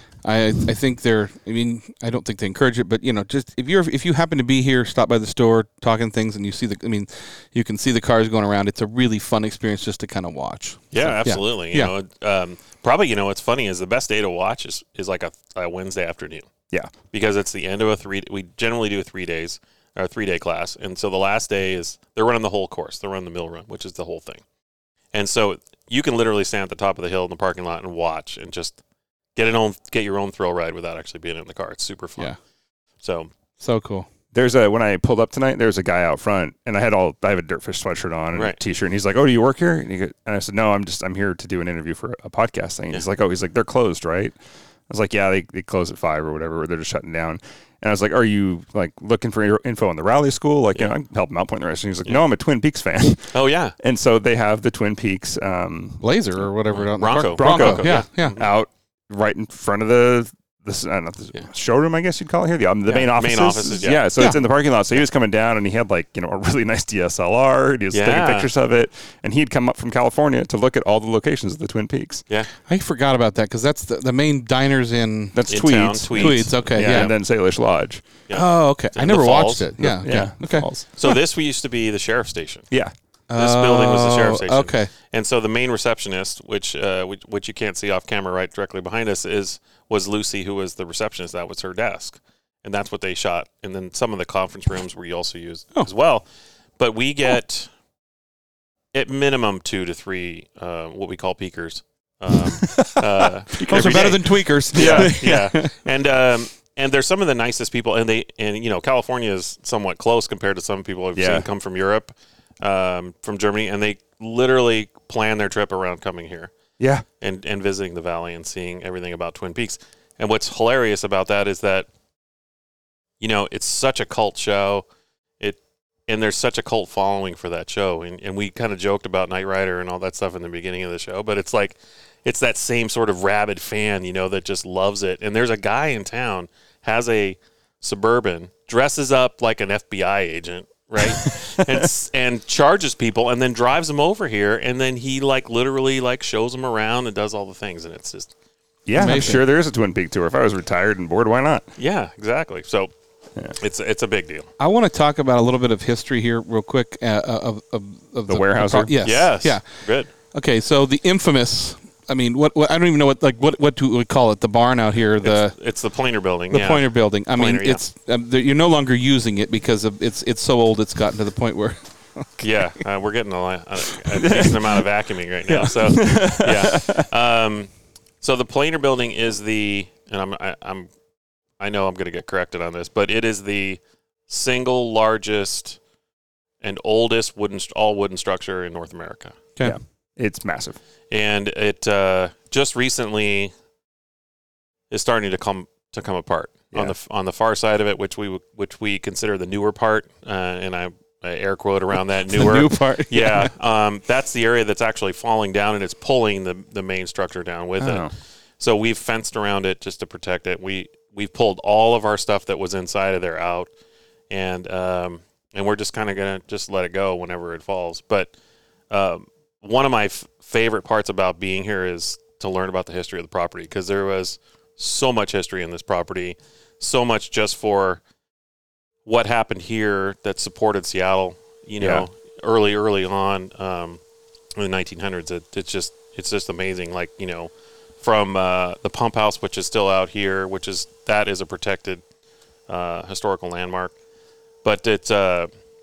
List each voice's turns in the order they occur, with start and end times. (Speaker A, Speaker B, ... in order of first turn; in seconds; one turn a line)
Speaker A: 0.2-11.9
Speaker B: 10.9-16.5
Speaker B: 17.1-24.4
Speaker B: 25.1-28.8
Speaker B: 29.4-32.3
Speaker B: 33.0-33.3
Speaker A: 33.6-34.1
Speaker C: 34.3-44.4
Speaker B: 38.3-38.6
Speaker C: 44.9-56.1
Speaker B: 53.3-53.7
Speaker A: 56.0-58.4
Speaker B: 56.7-58.5
Speaker C: 57.2-72.2
Speaker B: 62.9-64.1
Speaker A: 64.2-64.4
Speaker B: 67.9-68.5
Speaker A: 72.7-75.4
Speaker C: 75.3-78.0
Speaker B: 75.5-77.1
Speaker A: 76.1-77.1
Speaker B: 78.3-79.7
Speaker A: 78.3-80.7
Speaker C: 79.8-80.9
Speaker B: 80.9-82.7
Speaker A: 83.3-84.9
Speaker B: 83.3-96.2
Speaker B: 96.8-97.7
Speaker B: 98.9-116.5
Speaker C: 102.6-105.2
Speaker A: 103.6-105.7
Speaker C: 111.2-111.5
Speaker C: 116.8-117.0
Speaker B: 117.2-121.9
Speaker B: 123.2-124.8
Speaker B: 125.4-148.3
Speaker C: 141.0-141.8
Speaker C: 148.8-151.7
Speaker A: 148.9-149.4
Speaker B: 151.8-152.9
Speaker B: 153.6-154.5
Speaker A: 154.6-159.6
Speaker C: 158.3-158.9
Speaker B: 159.0-160.1
Speaker A: 160.3-165.5
Speaker B: 165.2-167.8
Speaker A: 166.5-172.3
Speaker B: 172.4-180.9
Speaker C: 174.2-174.7
Speaker C: 175.5-177.1
Speaker B: 181.6-185.8
Speaker B: 186.6-189.4
Speaker C: 189.6-190.8
Speaker B: 191.1-193.5
Speaker B: 194.9-208.1
Speaker A: 202.3-203.5
Speaker C: 207.8-208.1
Speaker B: 208.6-213.7
Speaker B: 214.3-218.3
Speaker B: 218.9-228.0
Speaker B: 229.0-234.0
Speaker C: 231.8-232.0
Speaker B: 234.6-242.0
Speaker B: 242.7-243.9
Speaker B: 244.6-245.5